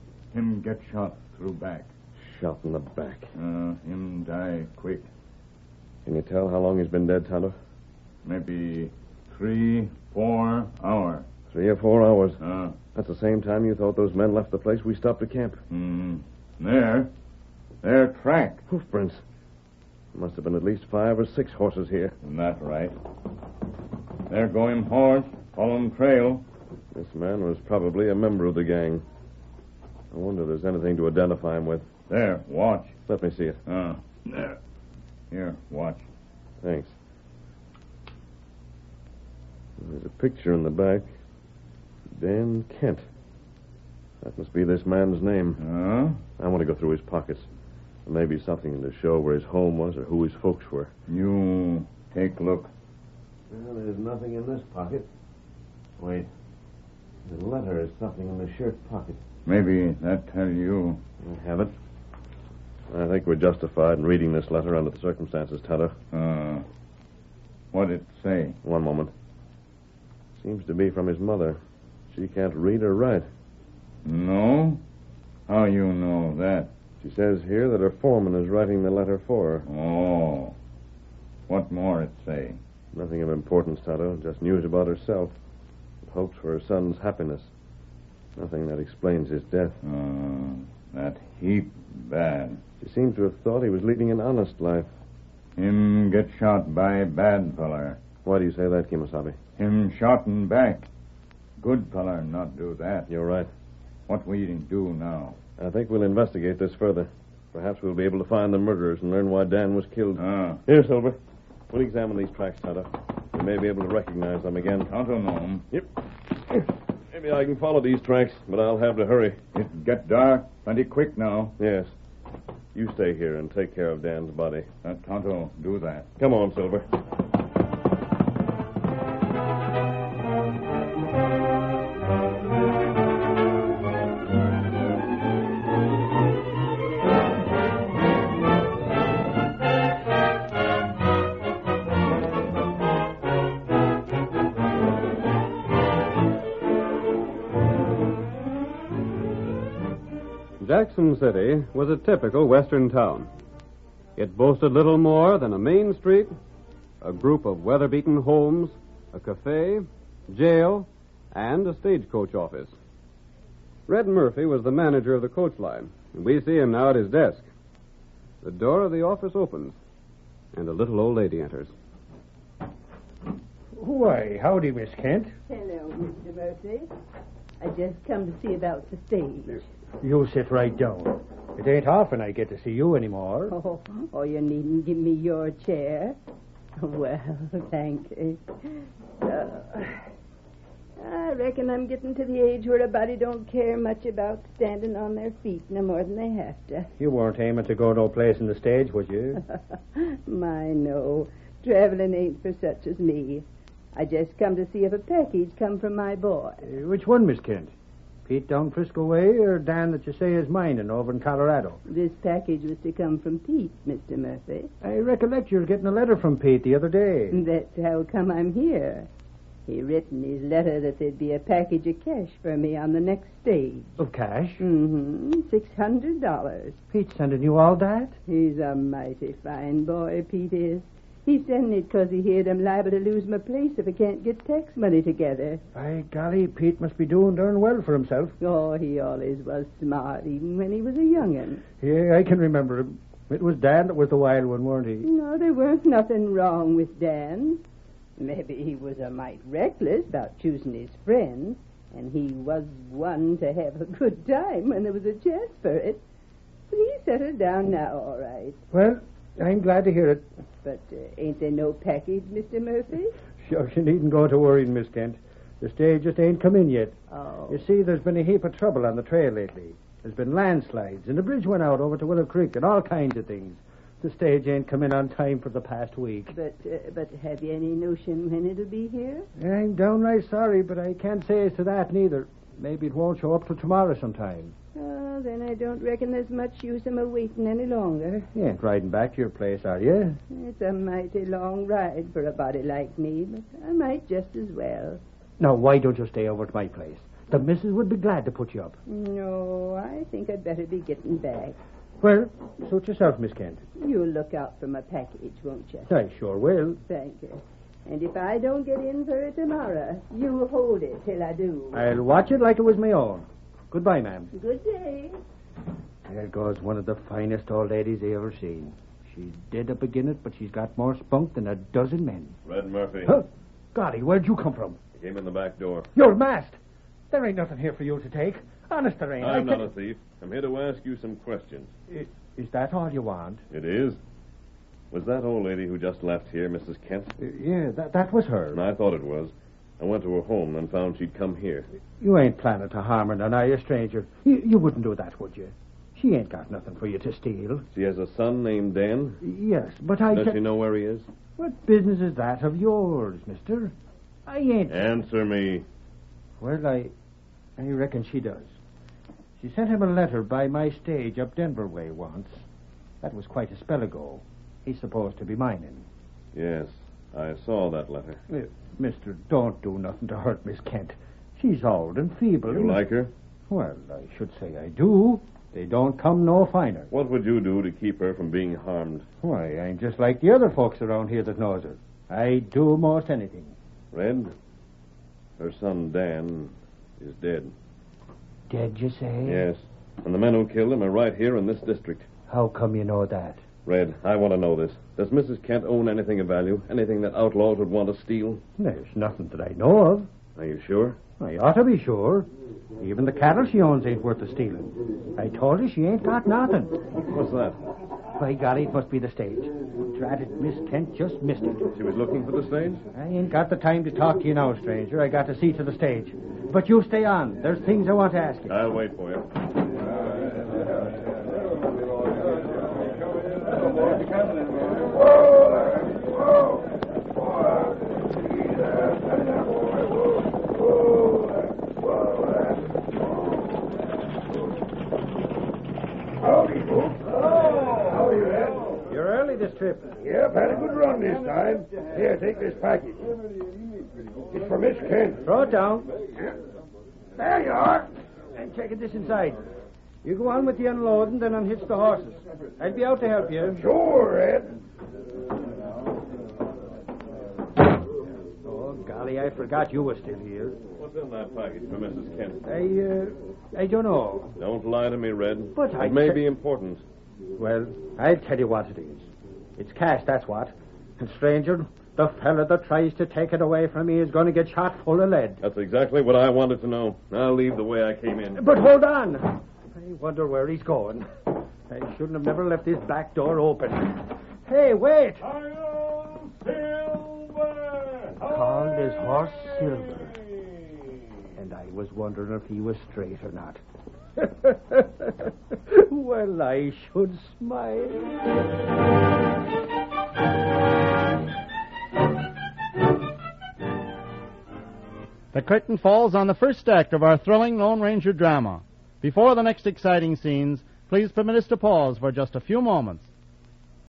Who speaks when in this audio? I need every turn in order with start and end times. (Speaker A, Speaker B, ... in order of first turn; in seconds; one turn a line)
Speaker A: 0.3-1.9
Speaker B: 2.2-3.3
Speaker A: 3.4-5.1
Speaker B: 6.0-7.5
Speaker A: 8.2-11.2
Speaker B: 11.5-12.4
Speaker A: 12.4-12.8
Speaker B: 12.9-15.6
Speaker A: 15.7-17.1
Speaker A: 17.8-18.6
Speaker B: 18.7-19.2
Speaker B: 20.1-22.1
Speaker A: 22.2-22.9
Speaker A: 24.3-26.4
Speaker B: 26.9-29.0
Speaker B: 30.1-31.9
Speaker A: 32.1-32.9
Speaker B: 33.1-33.6
Speaker A: 33.6-34.5
Speaker A: 35.3-36.0
Speaker B: 36.6-37.0
Speaker B: 39.8-41.1
Speaker B: 42.2-43.0
Speaker B: 44.2-45.6
Speaker A: 45.6-46.2
Speaker B: 46.4-47.5
Speaker B: 48.0-50.9
Speaker A: 51.1-52.7
Speaker B: 53.5-55.0
Speaker B: 56.0-56.3
Speaker B: 57.2-59.2
Speaker A: 59.5-61.0
Speaker B: 61.2-61.7
Speaker B: 62.9-66.0
Speaker A: 66.1-66.7
Speaker A: 67.7-68.5
Speaker B: 68.6-69.1
Speaker B: 70.4-71.6
Speaker B: 72.1-73.3
Speaker A: 74.0-74.8
Speaker A: 75.5-76.7
Speaker B: 77.0-79.7
Speaker A: 79.7-80.5
Speaker A: 81.5-82.6
Speaker B: 82.9-85.3
Speaker B: 86.0-87.5
Speaker B: 88.4-89.8
Speaker A: 89.8-92.6
Speaker B: 92.8-94.9
Speaker A: 95.5-98.0
Speaker B: 98.2-99.4
Speaker A: 99.6-100.8
Speaker A: 101.6-103.1
Speaker B: 103.1-103.5
Speaker A: 104.1-105.4
Speaker B: 105.6-111.2
Speaker A: 110.2-110.6
Speaker B: 111.7-114.9
Speaker A: 114.9-115.7
Speaker B: 116.5-119.4
Speaker A: 119.5-121.5
Speaker B: 121.6-121.9
Speaker B: 122.7-124.7
Speaker A: 124.8-126.1
Speaker B: 126.2-126.8
Speaker C: 150.6-153.3
Speaker C: 154.2-156.3
Speaker C: 157.0-162.7
Speaker C: 163.9-167.5
Speaker C: 168.4-169.8
Speaker C: 170.5-171.7
Speaker D: 173.8-175.3
Speaker E: 175.5-176.8
Speaker E: 177.6-179.6
Speaker D: 180.0-183.6
Speaker E: 183.5-186.2
Speaker E: 186.8-190.1
Speaker E: 191.0-196.9
Speaker D: 197.0-199.4
Speaker E: 199.4-206.7
Speaker D: 206.6-207.7
Speaker D: 208.2-211.8
Speaker E: 211.9-214.7
Speaker D: 214.8-217.4
Speaker E: 217.3-219.1
Speaker E: 219.7-224.0
Speaker D: 224.0-224.6
Speaker E: 224.6-226.8
Speaker D: 226.9-228.1
Speaker E: 228.3-235.6
Speaker D: 235.7-238.3
Speaker E: 238.4-241.7
Speaker D: 241.8-245.1
Speaker E: 245.0-247.6
Speaker E: 248.2-256.0
Speaker E: 256.7-258.6
Speaker D: 258.7-260.2
Speaker E: 260.6-263.1
Speaker D: 263.4-266.9
Speaker E: 267.1-267.6
Speaker D: 267.5-276.3
Speaker E: 276.3-279.2
Speaker D: 279.4-284.5
Speaker E: 284.7-288.3
Speaker D: 288.3-290.2
Speaker E: 290.3-295.0
Speaker D: 295.4-298.8
Speaker E: 298.9-301.6
Speaker D: 302.0-303.6
Speaker E: 303.8-305.9
Speaker D: 305.9-306.8
Speaker E: 306.8-311.9
Speaker D: 311.7-314.3
Speaker E: 314.3-315.1
Speaker D: 316.0-322.3
Speaker B: 322.4-323.2
Speaker D: 323.1-324.8
Speaker B: 325.0-325.9
Speaker D: 325.9-326.6
Speaker D: 327.1-329.7
Speaker B: 329.2-331.7
Speaker D: 331.9-333.4
Speaker B: 333.5-334.0
Speaker B: 334.9-337.1
Speaker D: 337.2-338.6
Speaker B: 338.5-341.7
Speaker D: 342.0-347.6
Speaker B: 347.7-349.2
Speaker D: 349.2-350.4
Speaker B: 350.1-351.1
Speaker D: 351.4-353.7
Speaker D: 354.3-354.8
Speaker B: 354.7-355.6
Speaker D: 356.4-356.9
Speaker D: 357.6-358.5
Speaker D: 359.4-362.4
Speaker D: 363.0-365.9
Speaker B: 366.3-368.2
Speaker D: 368.3-372.8
Speaker B: 372.5-373.1
Speaker D: 373.5-376.9
Speaker B: 376.9-379.1
Speaker D: 379.2-383.5
Speaker B: 383.9-384.3
Speaker B: 385.4-387.5
Speaker D: 388.5-389.4
Speaker B: 389.2-392.1
Speaker D: 392.3-393.4
Speaker B: 393.6-398.4
Speaker D: 398.6-400.1
Speaker B: 400.4-401.0
Speaker D: 401.2-402.3
Speaker D: 402.8-406.8
Speaker B: 407.1-407.6
Speaker D: 408.2-411.6
Speaker B: 411.7-412.8
Speaker D: 412.9-418.6
Speaker B: 418.5-419.2
Speaker D: 436.2-443.1
Speaker D: 444.4-445.9
Speaker D: 447.2-449.4
Speaker D: 450.0-453.7
Speaker B: 454.0-454.4
Speaker D: 458.4-460.6
Speaker B: 460.8-462.4
Speaker D: 462.4-464.3
Speaker B: 464.4-466.8
Speaker D: 465.5-466.2
Speaker D: 467.4-475.4
Speaker B: 475.4-478.4
Speaker D: 478.4-481.1
Speaker D: 481.7-485.3
Speaker A: 485.2-489.9
Speaker D: 488.2-490.2
Speaker D: 491.4-493.6
Speaker D: 494.2-498.1
Speaker F: 505.3-513.1